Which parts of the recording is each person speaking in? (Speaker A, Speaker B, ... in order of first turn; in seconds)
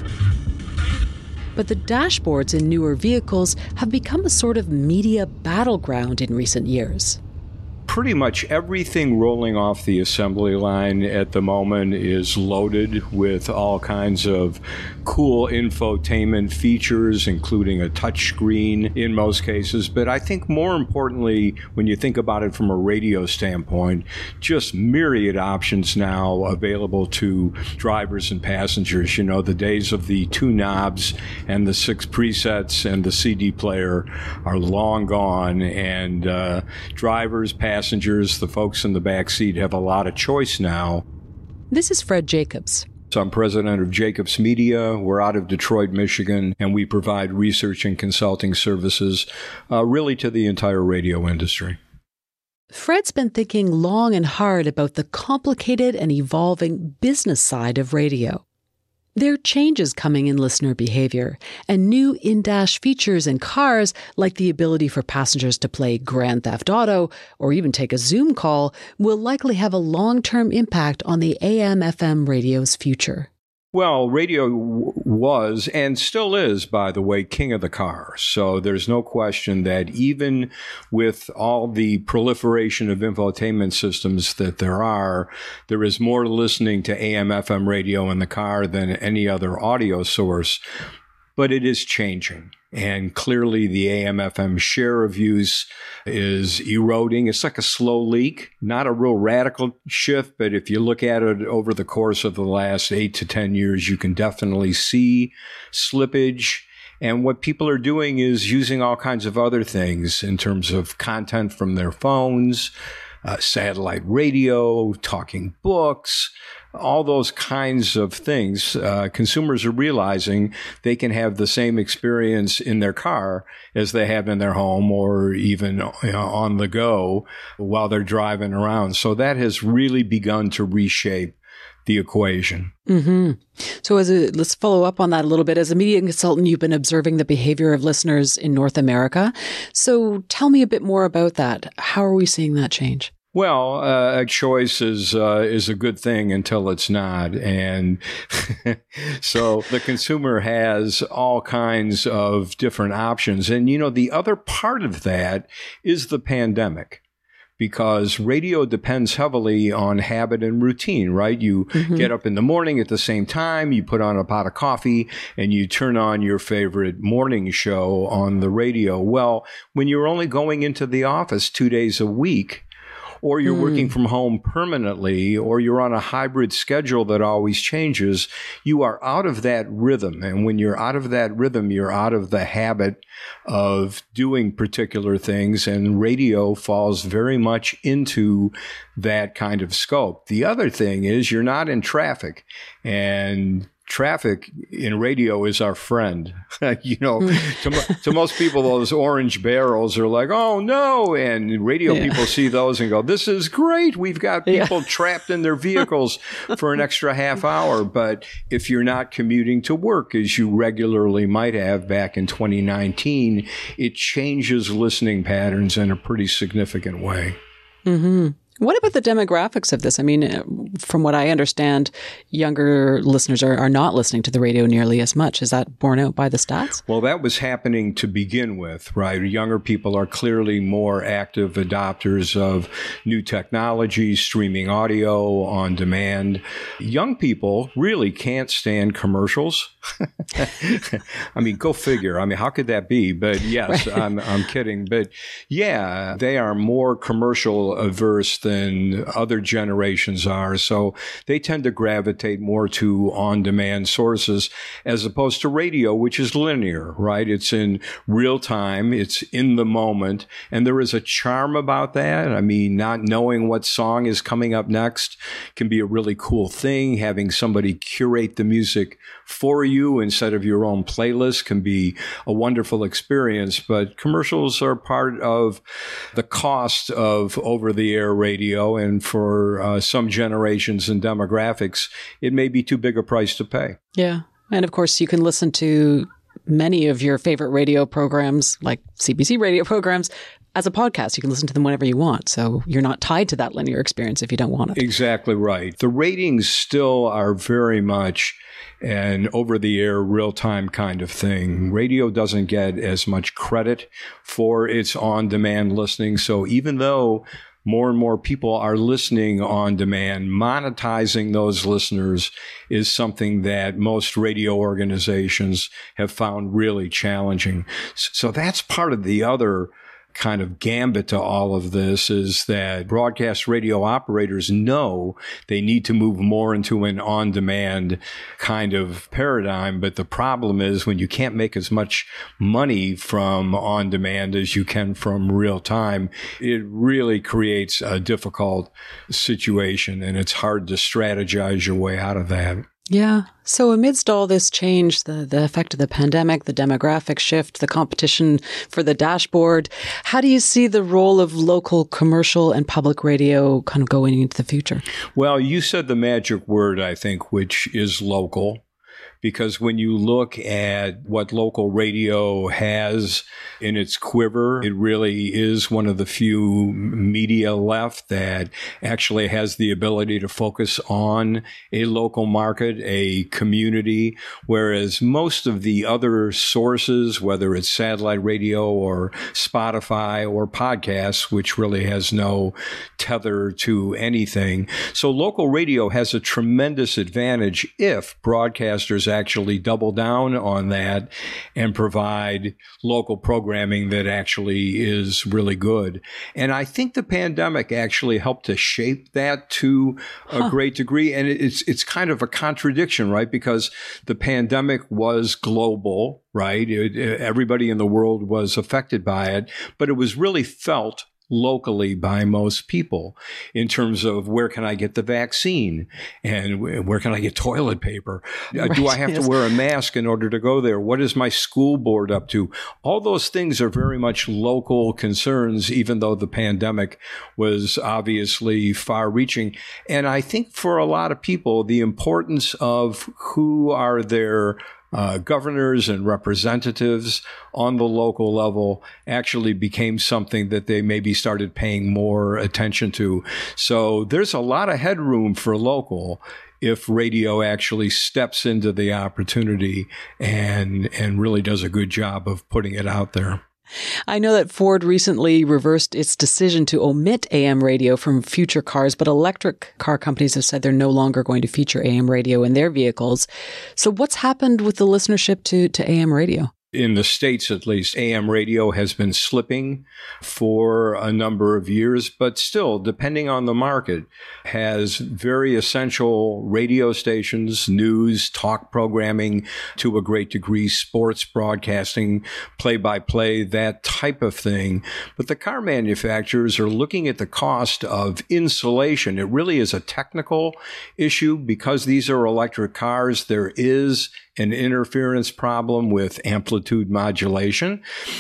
Speaker A: 1.6-7.2, 41.7-42.9, 52.7-58.4, 59.2-73.3, 132.9-143.1, 161.8-162.1, 173.4-173.9, 197.2-198.0, 201.9-202.3, 204.5-204.9, 217.9-226.8, 243.7-244.0, 283.9-294.8, 342.9-354.8, 418.6-419.3, 454.1-466.5
Speaker B: 7.9-41.0, 43.1-51.8, 73.7-90.6, 91.4-112.7, 113.2-132.7, 143.3-157.0, 157.6-172.7, 173.2-217.4, 226.9-239.7, 240.3-275.6, 276.1-283.8, 294.8-342.6, 355.1-358.6, 359.2-453.4, 466.7-497.8